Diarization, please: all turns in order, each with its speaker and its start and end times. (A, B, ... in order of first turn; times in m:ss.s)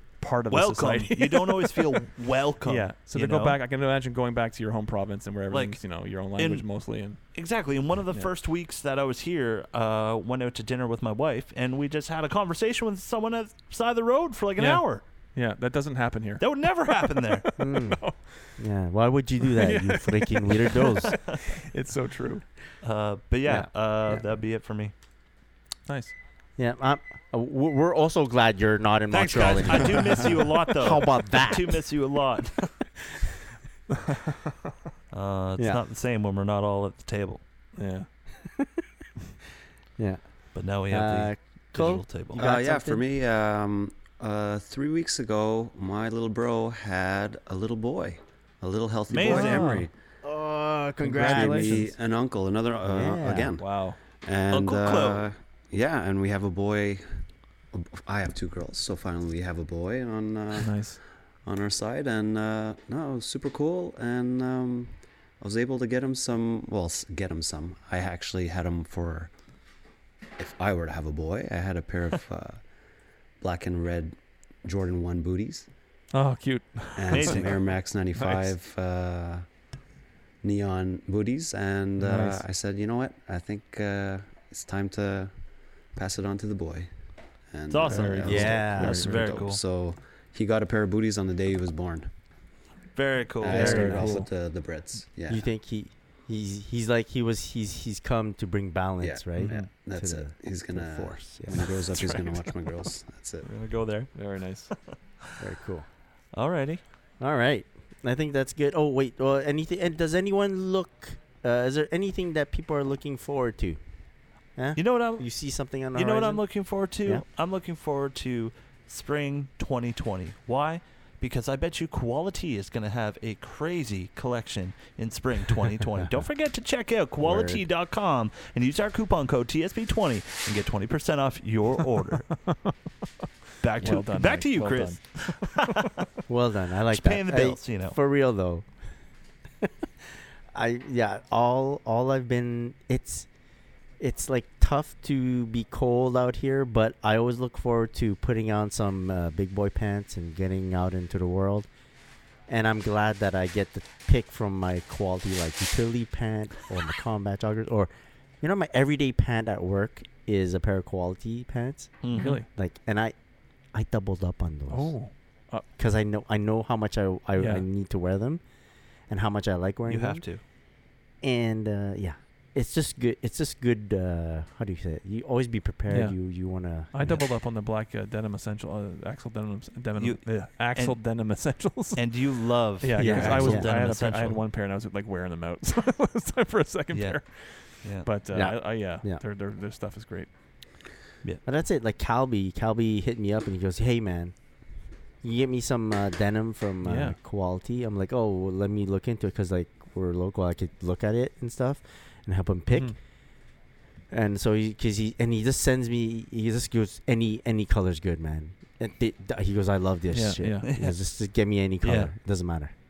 0:00.2-0:02.1 A
0:00.5-0:03.6 B
0:02.6-0:07.2 A
0:05.5-0:06.7 B
0:07.3-0:15.0 B
0:14.6-0:18.5 A
0:16.4-0:17.5 B
0:17.6-0:21.2 C
0:19.4-0:22.5 A
0:22.8-0:24.9 B
0:23.5-0:24.2 C
0:25.9-0:26.1 A
0:26.6-0:31.8 C
0:29.1-0:32.8 B
0:35.1-0:37.4 B
0:37.8-0:38.1 A
0:40.0-0:40.2 C
0:40.6-0:42.4 B
0:40.9-0:43.0 C
0:42.4-0:49.9 D
0:49.1-0:49.8 B
0:49.2-0:49.9 A
0:50.2-0:51.9 C
0:51.0-0:51.9 A
0:51.2-1:00.9 D
0:52.9-0:53.5 C
0:53.6-0:54.0 A
0:54.5-0:55.2 B
1:00.6-1:01.0 A
1:01.4-1:09.3 D
1:10.4-1:12.6 D
1:13.4-1:15.7 D
1:16.1-1:17.6 A
1:17.0-1:19.5 D
1:17.1-1:17.6 B
1:18.2-1:18.5 A
1:20.4-1:25.3 D
1:22.0-1:22.4 A
1:25.9-1:26.9 D
1:27.5-1:32.1 D
1:27.7-1:29.6 B
1:27.9-1:29.1 A
1:28.2-1:29.1 C
1:33.0-1:34.1 B
1:33.4-1:35.5 D
1:33.5-1:34.3 C
1:33.5-1:34.3 A
1:35.3-1:41.7 C
1:39.0-1:43.5 D
1:39.4-1:39.7 A
1:41.6-1:42.6 A
1:43.4-1:44.2 B
1:44.2-1:44.7 A
1:45.4-1:45.9 C
1:46.3-1:46.8 B
1:47.2-1:53.8 C
1:54.6-1:56.4 C
1:54.8-1:55.3 B
1:56.0-2:12.4 B
2:07.2-2:07.6 C
2:13.6-2:16.0 B
2:13.8-2:15.7 A
2:16.3-2:18.6 C
2:16.9-2:18.0 B
2:20.5-2:23.3 C
2:24.0-2:31.7 C
2:32.5-2:43.1 C
2:42.0-2:42.4 B
2:42.1-2:42.5 A
2:43.7-2:45.0 C
2:44.7-2:45.6 A
2:45.8-2:48.4 C
2:47.4-2:47.6 A
2:49.1-2:50.2 C
2:49.9-2:50.4 B
2:51.2-2:57.2 C
2:55.9-2:56.2 A
2:56.9-3:02.3 A
3:00.0-3:01.0 B
3:02.0-3:04.4 B
3:02.8-3:10.3 A
3:03.0-3:03.7 C
3:06.9-3:07.2 B
3:07.8-3:08.1 B
3:08.3-3:09.2 C
3:11.4-3:14.4 C
3:15.2-3:23.0 C
3:16.8-3:17.2 A
3:24.1-3:32.7 C
3:30.1-3:30.7 A
3:30.6-3:31.0 B
3:31.8-3:32.1 B